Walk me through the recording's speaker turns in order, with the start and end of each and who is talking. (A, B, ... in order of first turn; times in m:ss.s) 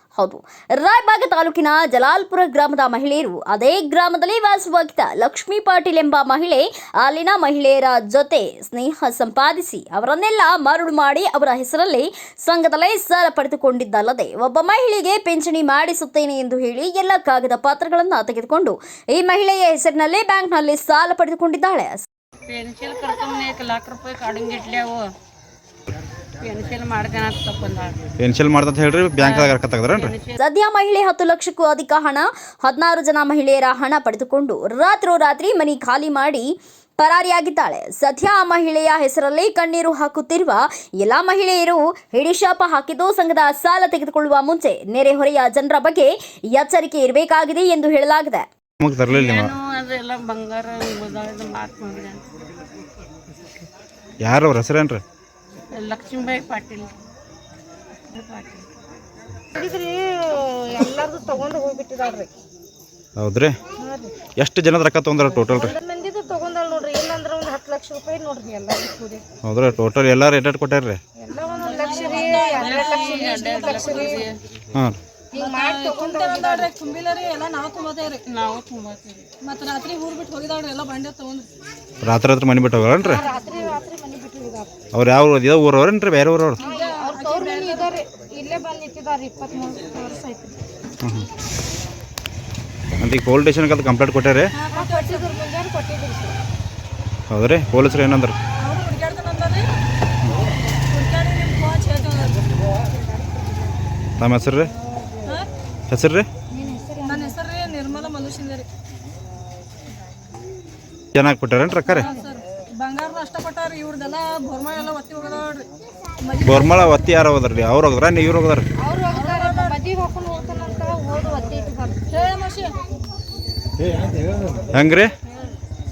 0:00.2-0:22.0 A
0:22.5-0:25.0 B
0:26.4-0:28.0 B
0:28.2-0:30.1 C
0:29.2-0:30.4 B
0:30.4-0:48.5 A
0:48.8-0:49.5 C
0:49.1-0:52.3 B
0:54.2-0:55.0 C
0:55.7-0:56.9 B
0:58.1-0:58.7 B
0:59.5-1:02.3 D
1:03.2-1:03.6 C
1:03.8-1:04.1 D
1:04.4-1:05.7 C
1:05.5-1:09.2 D
1:09.4-1:11.0 C
1:11.2-1:14.2 D
1:11.5-1:14.3 E
1:12.0-1:14.4 B
1:15.3-1:16.7 D
1:15.4-1:18.2 E
1:18.3-1:19.3 B
1:19.4-1:21.5 E
1:22.0-1:23.2 C
1:23.0-1:24.7 D
1:24.9-1:26.6 C
1:26.6-1:27.9 E
1:26.6-1:30.6 D
1:31.0-1:31.3 C
1:33.0-1:34.5 C
1:34.5-1:35.3 E
1:34.7-1:36.4 D
1:37.3-1:38.4 C
1:38.6-1:39.7 E
1:40.9-1:42.4 E
1:44.2-1:44.7 C
1:45.9-1:46.3 C
1:46.5-1:47.4 D
1:47.0-1:48.7 E
1:51.1-1:52.1 C
1:51.9-1:55.7 E
1:56.2-1:56.8 E
1:56.4-1:58.7 C
1:58.8-2:02.0 D
1:59.1-1:59.8 E
2:02.1-2:02.8 E
2:04.7-2:05.1 C